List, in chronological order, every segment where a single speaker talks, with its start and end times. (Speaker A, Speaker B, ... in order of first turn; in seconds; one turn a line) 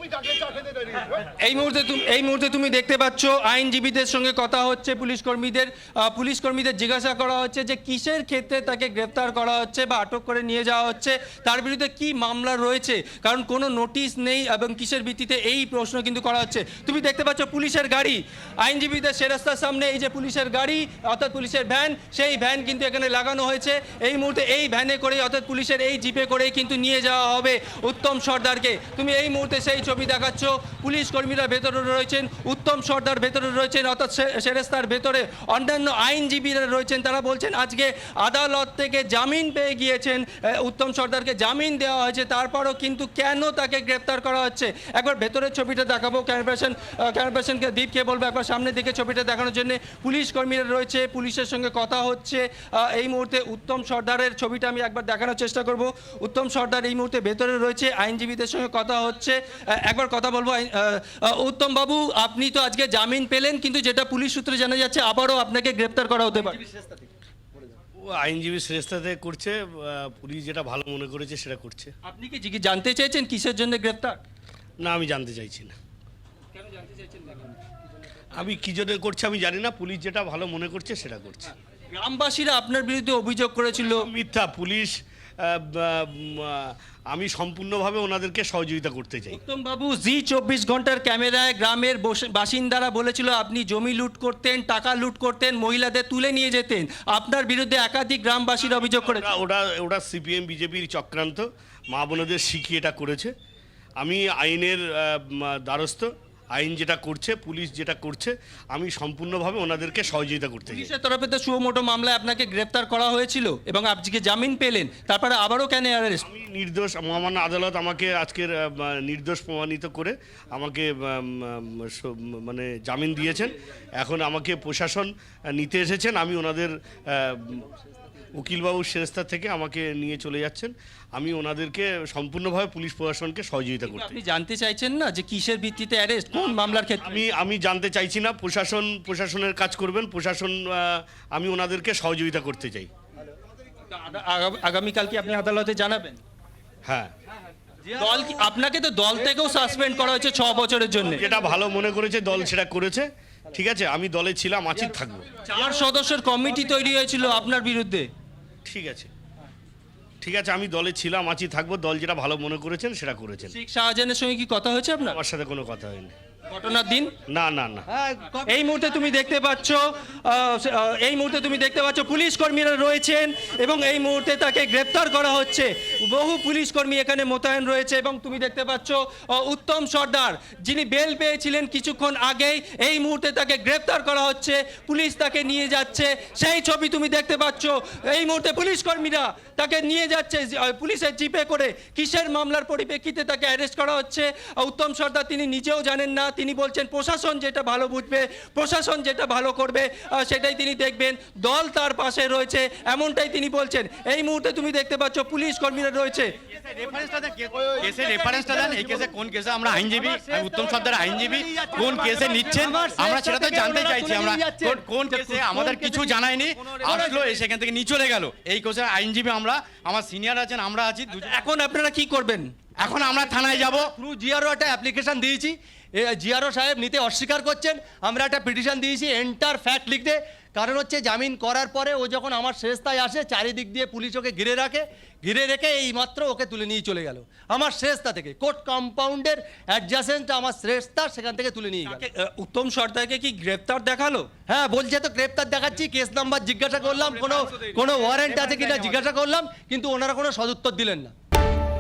Speaker A: 1.4-66.6
Speaker B: 66.7-67.0
Speaker C: 68.0-71.9
Speaker A: 72.0-74.2
Speaker C: 74.8-75.7
Speaker A: 76.7-77.5
Speaker C: 78.4-81.5
Speaker A: 81.9-84.1
Speaker C: 83.9-89.4
Speaker A: 89.3-99.3
Speaker C: 99.1-103.3
Speaker C: 104.0-110.9
Speaker A: 110.7-116.2
Speaker C: 116.2-127.7
Speaker C: 128.3-134.2
Speaker A: 133.9-137.2
Speaker C: 137.0-142.9
Speaker A: 143.9-146.2
Speaker C: 146.8-147.1
Speaker A: 147.9-151.2
Speaker C: 151.1-155.3
Speaker A: 155.4-158.1
Speaker C: 158.6-159.1
Speaker C: 160.2-163.5
Speaker A: 163.5-165.2
Speaker C: 165.1-166.1
Speaker A: 166.5-167.1
Speaker C: 167.3-167.9
Speaker B: 167.9-168.5
Speaker A: 168.4-206.3
Speaker D: 206.6-221.2
Speaker B: 207.7-217.4
Speaker A: 216.9-217.3
Speaker A: 221.1-222.5
Speaker D: 222.8-223.9
Speaker B: 222.9-242.0
Speaker A: 241.8-244.3
Speaker B: 244.5-251.1
Speaker A: 247.2-247.8